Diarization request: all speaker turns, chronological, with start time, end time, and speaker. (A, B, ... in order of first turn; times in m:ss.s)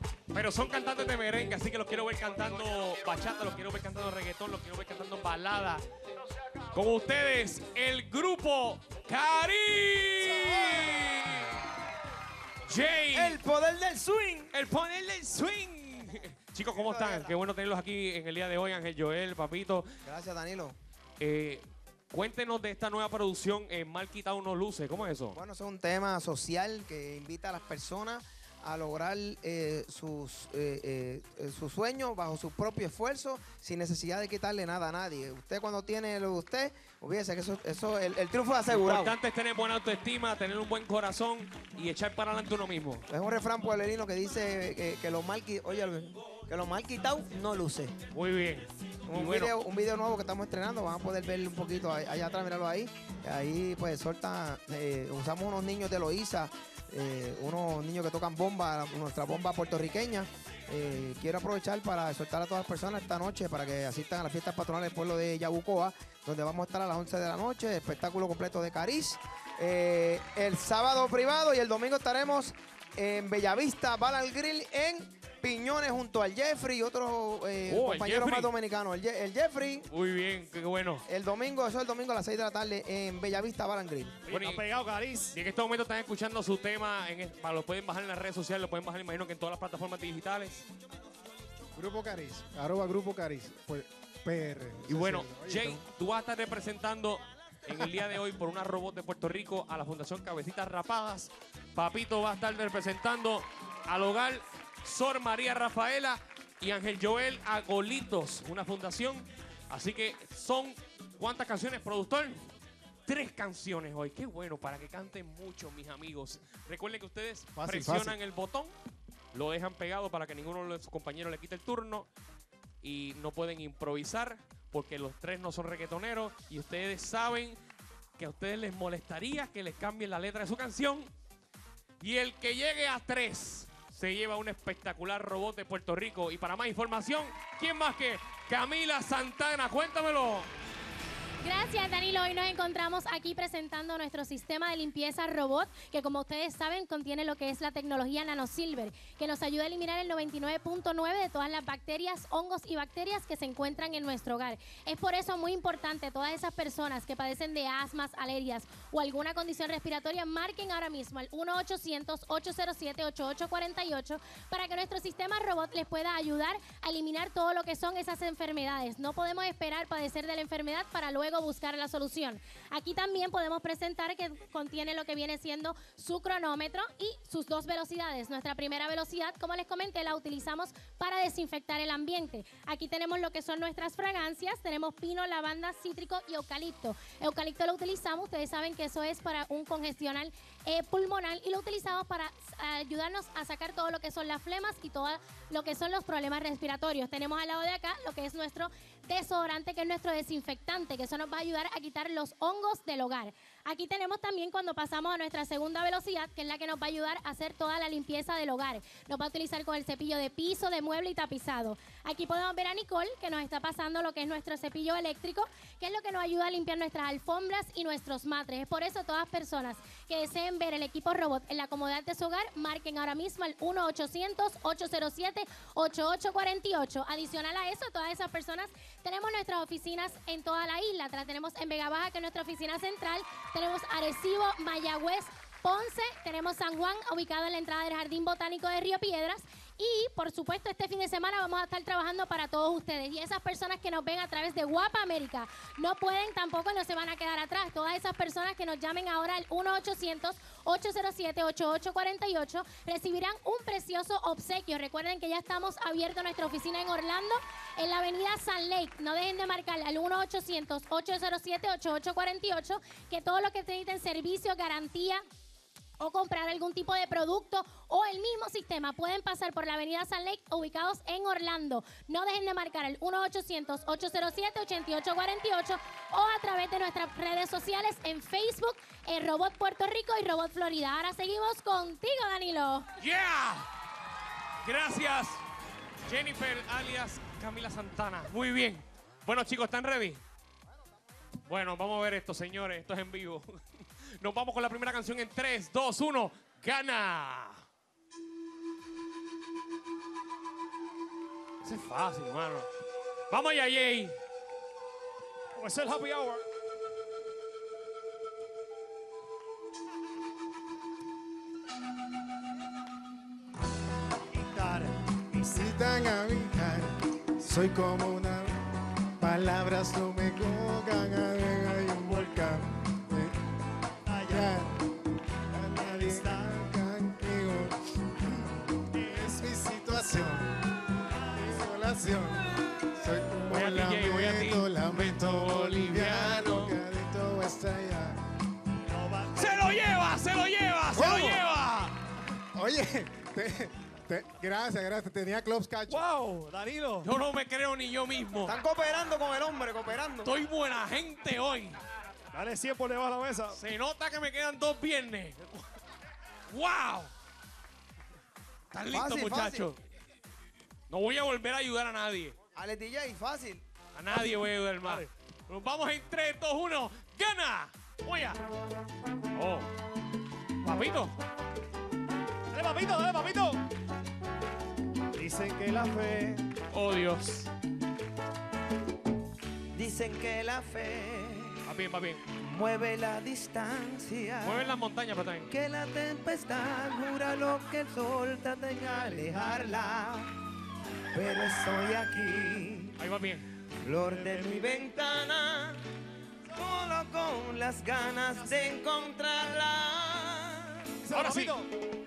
0:00.3-0:05.8 A
0:06.7-0:11.6 A
0:10.3-0:10.8 B
0:12.7-0:13.4 A
0:13.1-0:14.5 B
0:14.5-0:19.9 A
0:16.7-0:17.4 B
0:20.1-0:20.8 B
0:21.2-0:25.4 A
0:25.3-0:39.1 B
0:38.7-0:43.1 A
0:43.1-0:48.0 B
0:48.1-0:49.6 A
0:49.1-1:19.9 B
1:17.7-1:18.5 A
1:19.9-1:21.0 A
1:21.1-1:24.2 B
1:24.3-1:24.6 A
1:24.3-1:25.4 C
1:25.3-1:30.6 A
1:31.8-1:35.8 D
1:34.9-1:52.4 A
1:53.1-1:58.7 A
1:57.6-1:58.1 D
1:59.3-2:02.1 A
2:02.8-2:07.6 A
2:08.2-2:11.1 A
2:12.0-2:20.5 A
2:21.4-4:25.2 E
4:26.0-4:42.9 E
4:43.0-4:43.7 A
4:44.6-4:45.4 A
4:46.1-4:50.2 A
4:51.5-4:57.6 A
5:01.6-5:02.7 A
5:03.3-5:04.2 A
5:05.6-5:06.4 C
5:14.3-5:15.8 C
5:15.6-5:18.6 D
5:19.2-5:23.4 D
5:22.0-5:22.5 C
5:24.1-5:24.8 C
5:24.3-5:24.7 D
5:25.5-5:28.5 D
5:25.7-5:26.7 C
5:28.9-5:29.4 C
5:29.1-5:30.6 D
5:31.4-5:38.2 D
5:33.5-5:36.8 A
5:38.9-5:39.8 C
5:39.4-5:42.0 A
5:42.6-5:46.0 D
5:45.9-5:47.1 C
5:47.0-5:48.6 A
5:48.5-5:50.3 B
5:50.2-5:51.8 A
5:52.3-5:53.6 C
5:53.5-5:55.7 A
5:56.5-5:57.1 A
5:58.7-5:59.8 A
5:58.9-5:59.7 B
6:00.9-6:02.4 A
6:02.6-6:03.6 B
6:03.9-6:08.4 A
6:09.3-6:09.7 A
6:10.6-6:11.2 A
6:12.5-6:13.6 C
6:15.2-6:16.5 C
6:16.7-6:17.5 A
6:19.7-6:21.6 B
6:21.6-6:22.2 A
6:22.4-6:24.7 B
6:24.4-6:25.5 A
6:25.5-6:30.3 B
6:29.1-6:29.6 C
6:31.1-6:33.0 B
6:33.0-6:33.5 A
6:33.8-6:35.8 B
6:34.0-6:34.9 C
6:36.5-6:40.9 B
6:41.0-6:41.7 C
6:41.1-6:41.6 A